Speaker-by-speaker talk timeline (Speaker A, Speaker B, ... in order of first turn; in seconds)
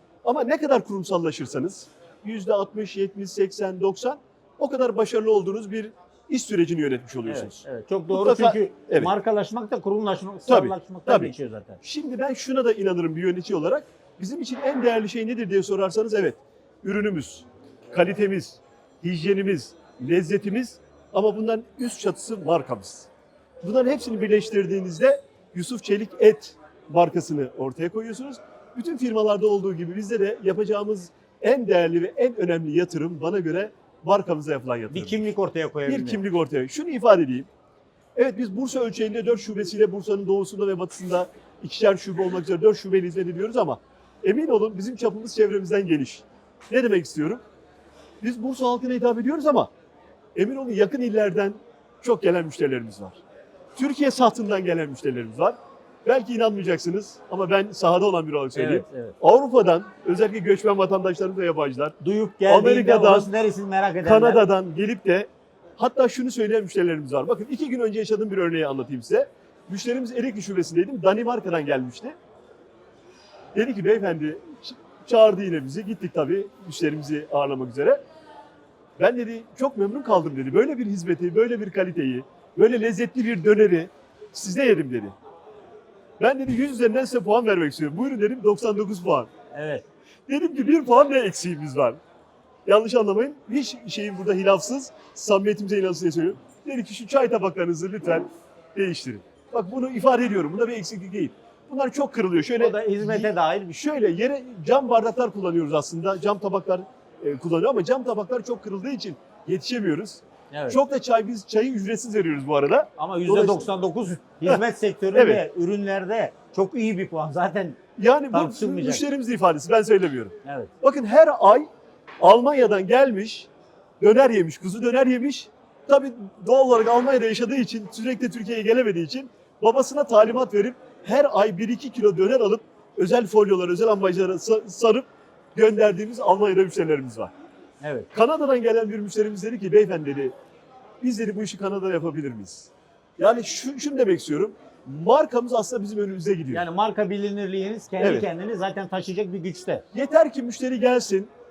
Speaker A: 0.2-9.1, 10.5-23.1, 23.6-35.2, 35.9-37.5, 38.1-47.4, 48.2-49.7, 50.3-53.2, 53.8-62.0, 62.5-63.3, 64.0-72.1, 73.5-78.0, 79.0-85.1, 86.2-89.3, 90.3-92.0, 92.7-113.7, 115.1-115.4, 118.0-121.7, 122.2-123.5, 124.0-137.3, 138.1-140.3, 141.0-146.6, 148.0-148.3, 149.9-151.3
Speaker B: 7.2-11.8, 34.9-36.2, 58.5-59.2, 62.0-64.5, 89.5-89.8, 102.6-103.8, 110.5-110.8, 113.0-119.0, 120.4-120.7, 137.8-138.1, 146.5-149.8